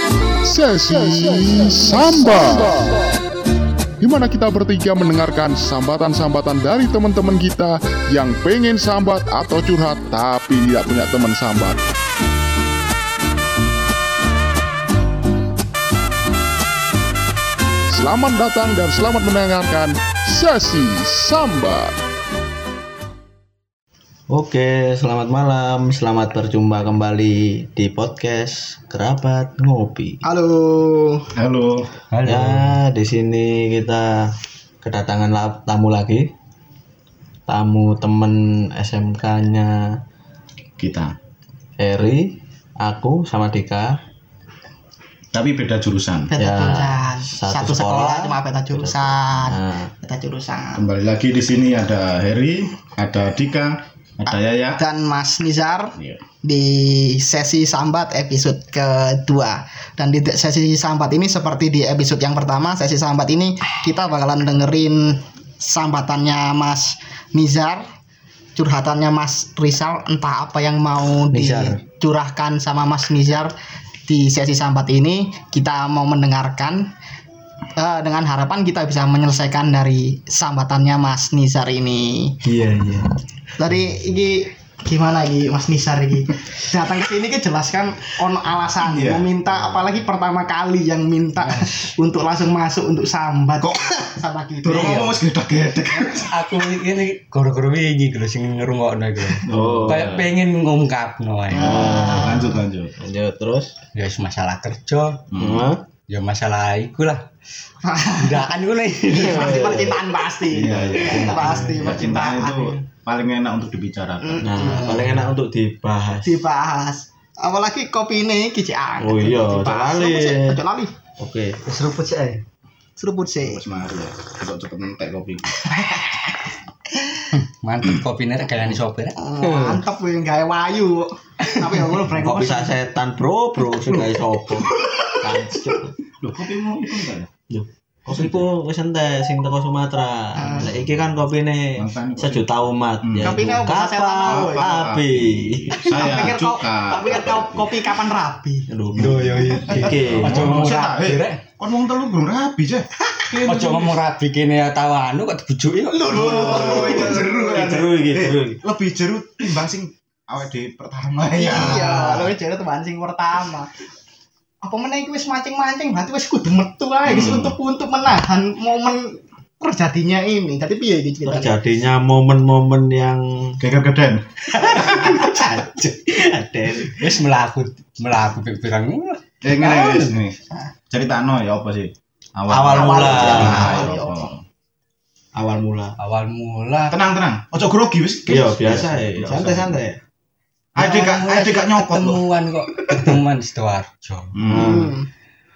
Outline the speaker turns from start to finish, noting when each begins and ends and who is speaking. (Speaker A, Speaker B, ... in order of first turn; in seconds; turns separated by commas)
Speaker A: 0.5-2.8, Speaker A: 4.0-11.8, Speaker A: 17.9-21.9, Speaker B: 24.3-30.2, Speaker C: 30.2-31.3, Speaker D: 31.4-31.9, Speaker E: 32.1-32.8, Speaker B: 32.3-34.3, Speaker B: 34.8-36.3, Speaker B: 37.5-40.0, Speaker D: 40.8-41.1, Speaker B: 41.8-44.0, Speaker D: 45.3-46.3, Speaker C: 46.3-50.9, Speaker B: 46.4-49.9, Speaker D: 50.8-54.8, Speaker C: 54.7-67.8, Speaker C: 68.5-73.5, Speaker B: 71.3-71.8, Speaker C: 74.1-76.9, Speaker C: 77.8-82.4, Speaker B: 82.4-83.1, Speaker C: 83.6-95.2, Speaker D: 88.8-89.3, Speaker E: 91.4-91.7, Speaker D: 93.6-93.9, Speaker D: 94.6-96.3, Speaker E: 94.7-95.2, Speaker E: 96.2-101.9, Speaker D: 99.4-100.2, Speaker B: 99.5-100.2, Speaker C: 101.5-102.6, Speaker B: 101.5-103.7, Speaker D: 102.0-103.0, Speaker E: 103.9-105.2, Speaker D: 105.3-105.7, Speaker B: 105.4-105.8, Speaker E: 106.1-107.2, Speaker C: 107.8-108.5, Speaker E: 108.2-109.5, Speaker C: 109.1-112.8, Speaker B: 109.1-112.0, Speaker D: 110.5-114.9, Speaker C: 114.2-115.0, Speaker B: 114.4-116.4, Speaker E: 114.8-115.3, Speaker C: 116.2-120.9, Speaker B: 119.0-120.6, Speaker B: 121.2-121.6, Speaker E: 121.7-122.4, Speaker C: 123.0-123.6, Speaker D: 123.4-125.5, Speaker C: 125.5-127.3, Speaker E: 127.3-129.2, Speaker C: 129.2-132.8, Speaker B: 129.4-129.8, Speaker B: 132.1-135.9, Speaker D: 136.2-137.3, Speaker B: 137.5-146.3, Speaker D: 138.1-138.4, Speaker C: 140.3-140.7, Speaker D: 141.8-147.9, Speaker C: 143.2-144.7, Speaker C: 145.8-148.7, Speaker B: 148.7-150.5, Speaker D: 148.9-153.9, Speaker E: 149.0-151.4, Speaker E: 153.3-156.3, Speaker C: 155.9-157.7, Speaker D: 156.1-162.3, Speaker B: 156.2-158.6, Speaker C: 161.4-163.7, Speaker C: 164.6-171.6, Speaker D: 167.1-167.6, Speaker B: 171.2-173.6, Speaker D: 173.6-175.1, Speaker B: 174.6-177.0, Speaker C: 174.7-175.4, Speaker E: 177.0-180.3, Speaker D: 179.4-180.4, Speaker D: 180.9-184.4, Speaker B: 182.5-183.9, Speaker C: 182.7-184.3, Speaker E: 183.3-183.8, Speaker B: 185.3-185.9, Speaker E: 186.0-187.0, Speaker D: 186.9-189.8, Speaker B: 188.3-190.0, Speaker D: 190.8-192.2, Speaker E: 190.8-194.3, Speaker D: 194.3-194.9, Speaker B: 194.4-195.0, Speaker C: 194.6-195.1